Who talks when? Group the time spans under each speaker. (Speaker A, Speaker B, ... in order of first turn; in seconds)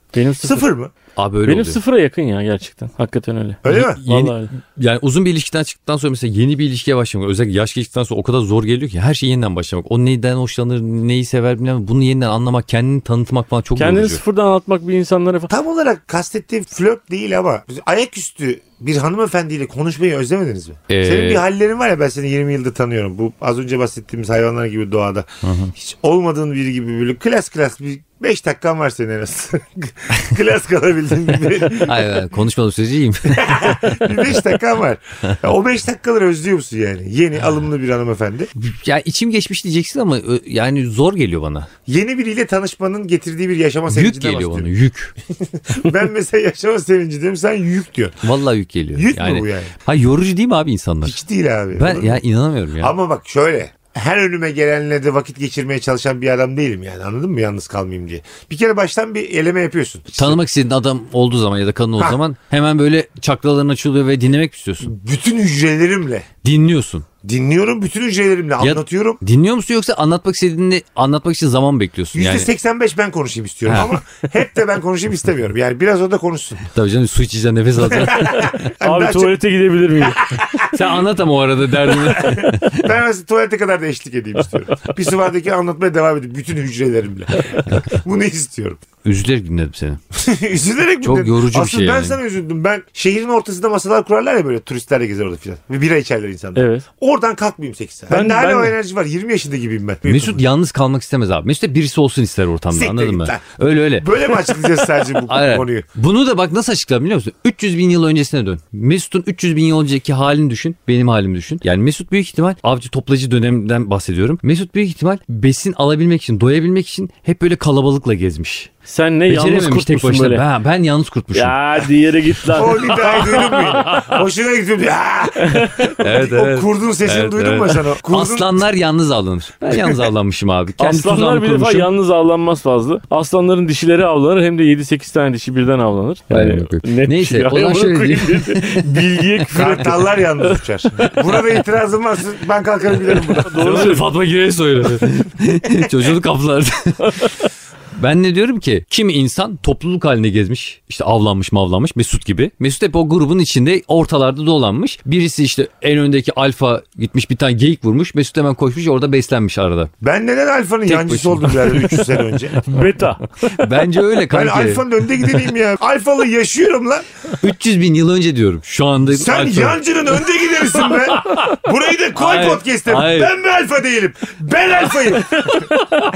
Speaker A: 0.1-0.7, 1.4-4.5, 13.8-15.5, 78.8-80.3, 96.5-96.8, 98.1-98.7, 118.9-120.5, 121.3-124.2, 125.4-125.9, 130.8-141.2, 143.4-144.1, 147.0-147.3, 162.7-163.6
Speaker B: 0.4-0.9, 3.6-4.0, 15.5-32.2, 33.3-38.5, 41.9-44.7, 45.4-48.2, 48.9-49.7, 51.0-52.2, 52.8-60.4, 64.8-66.3, 67.2-69.2, 72.1-76.6, 77.9-79.4, 80.2-80.8, 81.9-88.8, 90.1-100.4, 102.7-105.9, 122.5-128.6, 139.5-143.9, 160.0-162.6, 164.3-167.1, 169.1-175.7
Speaker C: 1.1-1.8, 3.7-14.2, 20.9-21.4, 25.4-25.7, 31.8-34.2, 38.6-41.7, 43.9-45.1, 48.2-51.2, 51.8-52.9, 60.2-64.9, 66.4-67.0, 68.6-72.5, 73.7-74.0, 76.7-78.6, 80.6-82.9, 89.0-90.0, 91.0-92.2, 100.0-104.6, 105.2-118.7, 119.3-121.8, 123.6-124.2, 126.0-131.9, 136.3-139.2, 143.5-147.3, 147.9-159.9, 160.8-162.2, 163.5-164.8, 167.4-169.8, 170.9-171.4, 172.1-173.3